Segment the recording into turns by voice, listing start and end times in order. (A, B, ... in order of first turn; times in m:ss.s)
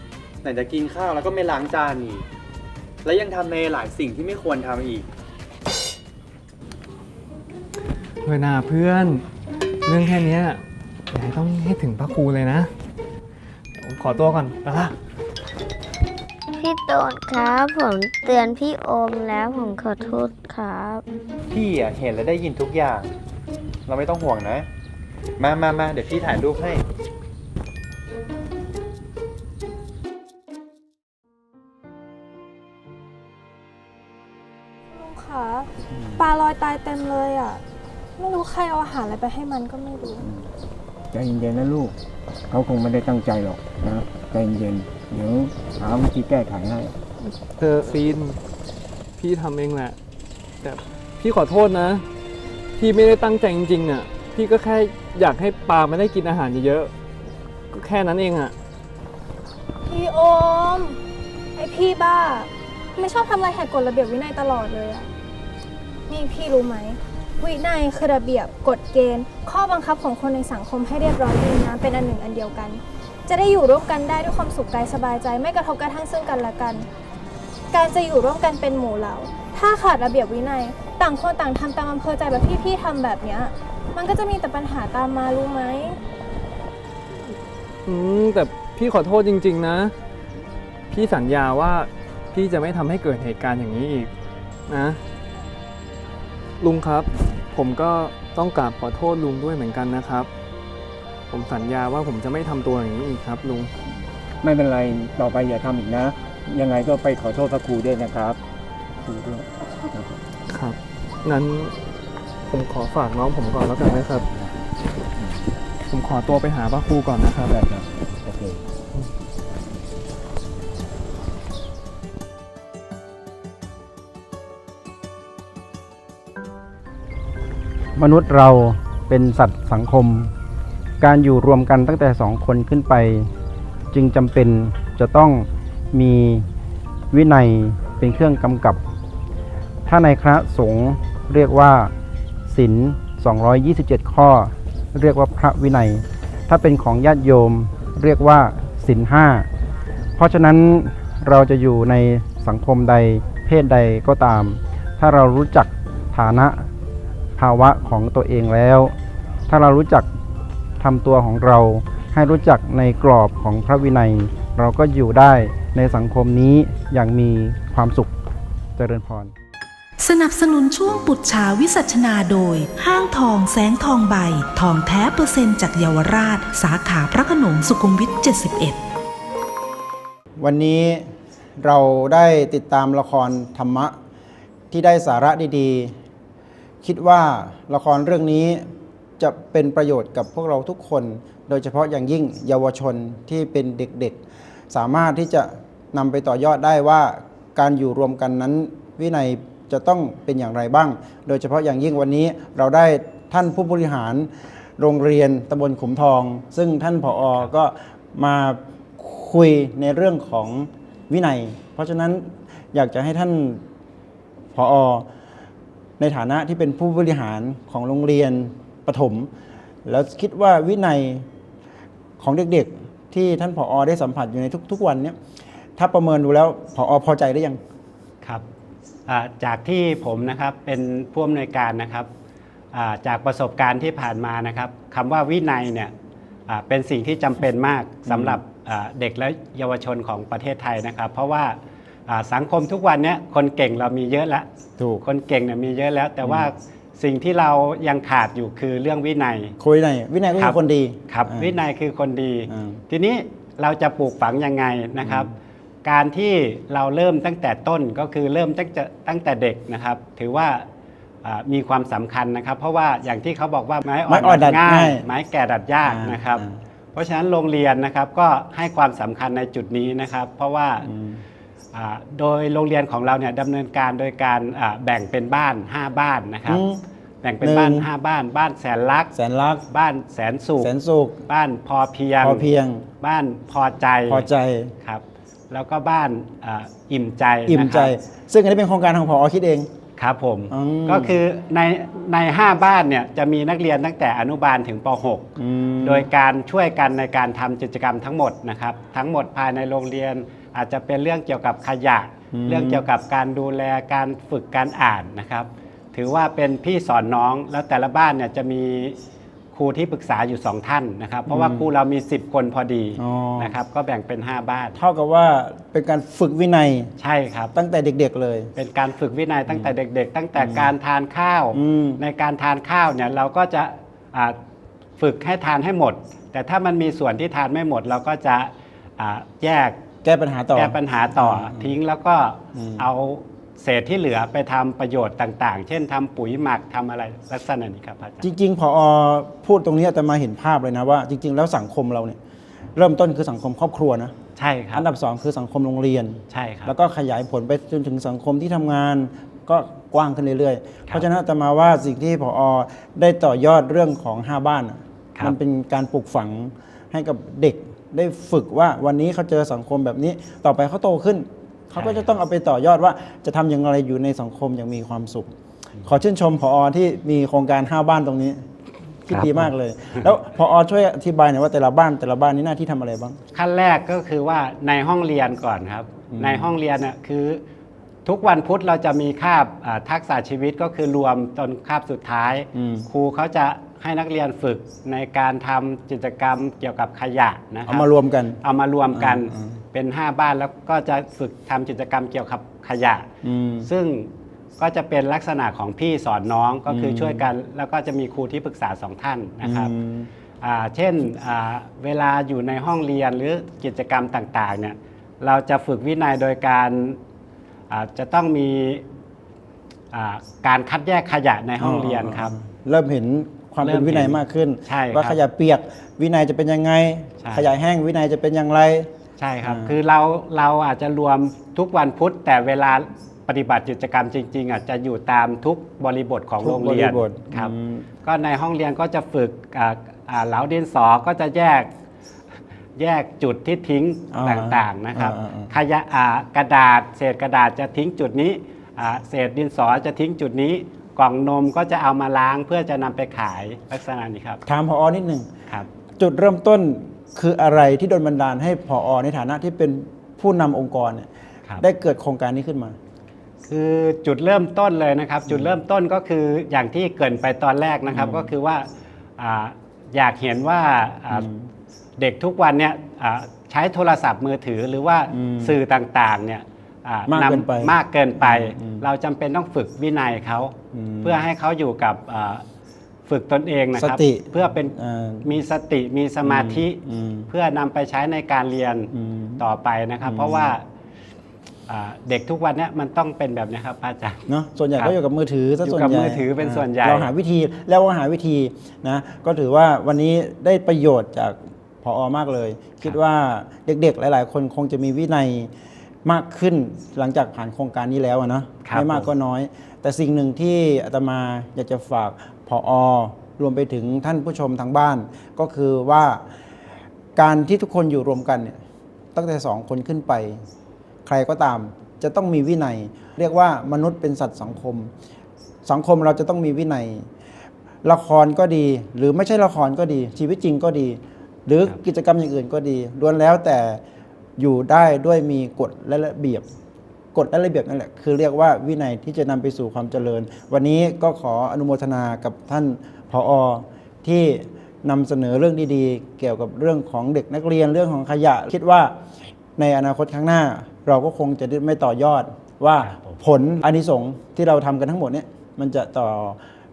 0:00.4-0:02.2 A
0:03.0-0:05.1 A
0:08.2-0:09.2 B
0:09.8-0:12.7 B
0:13.8-0:14.9 B
0:16.6-0:21.0 C
0:21.5-0:23.1 A
0:23.9-0:24.7 A
0:25.4-0:26.8 A
0:34.9-0:37.6 D
0:38.2-0:40.2 D
0:40.2-0:40.5 E
0:41.1-0:41.9 E
0:42.5-0:47.0 E
0:47.4-0:48.4 B
0:49.2-0:50.0 B
0:50.6-0:52.0 B
0:52.8-0:56.9 B
0:57.7-0:58.5 B
0:59.8-1:01.0 D
1:01.6-1:05.1 D
1:06.1-1:16.9 D
1:17.7-1:26.0 D
1:27.8-1:29.9 B
1:30.9-1:34.1 B
1:34.7-1:35.0 B
1:36.6-1:40.3 B
1:41.3-1:43.7 B
1:44.4-1:48.4 E
1:49.0-1:50.2 E
1:50.5-1:51.7 B
1:52.5-1:54.2 B
1:53.8-1:54.6 E
1:55.1-1:55.5 E
1:55.9-1:57.5 B
1:57.4-1:58.6 E
2:08.0-2:10.3 F
2:11.0-2:13.3 F
2:13.9-2:16.5 F
2:17.1-2:18.8 F
2:19.8-2:21.9 F
2:22.5-2:29.5 F
2:30.2-2:36.7 F
2:37.4-2:38.9 F
2:39.5-2:40.1 F
2:40.8-2:48.1 F
2:48.8-2:49.3 F
2:50.0-2:58.8 G
3:00.4-3:01.1 F
3:01.6-3:04.0 F
3:04.7-3:06.0 F
3:06.8-3:08.6 F
3:09.2-3:14.2 F
3:14.7-3:33.6 F
3:34.5-3:35.1 F
3:36.0-3:39.3 F
3:39.8-3:41.3 F
3:42.2-3:45.2 F
3:45.8-3:47.6 F
3:49.1-3:52.1 H
3:52.7-3:55.9 H
3:56.5-4:01.5 H
3:58.1-3:58.4 F
4:02.1-4:04.4 H
4:05.0-4:09.5 H
4:09.6-4:11.6 F
4:11.1-4:20.6 H
4:12.5-4:12.8 F
4:15.0-4:15.3 F
4:21.2-4:26.4 H
4:24.1-4:25.0 F
4:25.8-4:26.6 F
4:26.9-4:30.9 H
4:30.8-4:31.2 F
4:31.7-4:36.6 H
4:36.5-4:36.8 F
4:37.2-4:39.1 H
4:37.4-4:37.9 F
4:39.1-4:39.6 F
4:39.7-4:40.7 H
4:40.6-4:41.2 F
4:41.3-4:42.5 H
4:42.2-4:42.8 F
4:43.0-4:44.3 H
4:44.1-4:44.7 F
4:44.8-4:47.9 H
4:47.5-4:49.7 F
4:50.0-5:09.0 H
4:50.5-4:51.2 F
4:55.4-4:56.1 F
5:02.3-5:02.8 F
5:09.5-5:14.8 H
5:11.3-5:11.7 F
5:13.0-5:13.6 F
5:14.8-5:16.9 F
5:17.0-5:17.5 H
5:17.5-5:18.5 F
5:18.6-5:24.4 H
5:20.4-5:20.7 F
5:21.5-5:22.0 F
5:25.0-5:29.8 H
5:30.0-5:31.8 F
5:30.5-5:38.3 H
5:32.5-5:32.8 F
5:38.2-5:42.2 F
5:42.8-5:44.1 F
5:44.4-5:44.8 H
5:44.7-6:05.3 F
5:46.3-5:46.7 H
6:01.8-6:02.0 H
6:05.8-6:08.4 F
6:09.0-6:13.2 F
6:09.1-6:09.5 H
6:13.3-6:17.4 H
6:16.1-6:16.5 F
6:18.0-6:27.8 H
6:22.5-6:22.9 F
6:27.6-6:29.6 F
6:28.4-6:33.1 H
6:33.2-6:33.7 F
6:33.6-6:39.7 H
6:36.7-6:37.3 F
6:39.4-6:40.1 F
6:40.4-6:47.0 H
6:47.7-6:48.8 H
6:49.9-6:52.3 H
6:51.6-6:58.9 F
6:53.6-6:55.2 H
6:59.2-7:07.5 H
6:59.4-6:59.7 F
7:06.4-7:07.8 F
7:08.0-7:11.7 H
7:12.8-7:24.4 H
7:14.1-7:15.5 F
7:24.5-7:25.3 F
7:26.0-7:31.1 F
7:31.6-7:32.8 F
7:33.4-7:38.6 H
7:35.3-7:35.5 F
7:37.9-7:38.3 F
7:39.2-7:41.3 H
7:41.1-7:41.5 F
7:42.0-7:52.4 H
7:45.1-7:45.6 F
7:47.1-7:48.8 F
7:50.7-7:51.2 F
7:53.1-8:00.6 H
7:53.8-7:55.3 F
7:56.2-7:57.3 F
7:58.9-7:59.4 F
8:00.0-8:00.5 F
8:01.7-8:04.2 H
8:04.3-8:15.5 F
8:05.6-8:07.1 H
8:16.0-8:26.2 F
8:18.6-8:19.1 H
8:27.2-8:28.6 F
8:29.1-8:30.4 F
8:31.0-8:34.9 F
8:35.6-8:37.1 F
8:37.8-8:43.8 F
8:44.4-8:46.4 F
8:47.1-8:59.0 F
8:59.6-9:06.4 F
9:02.8-9:03.2 H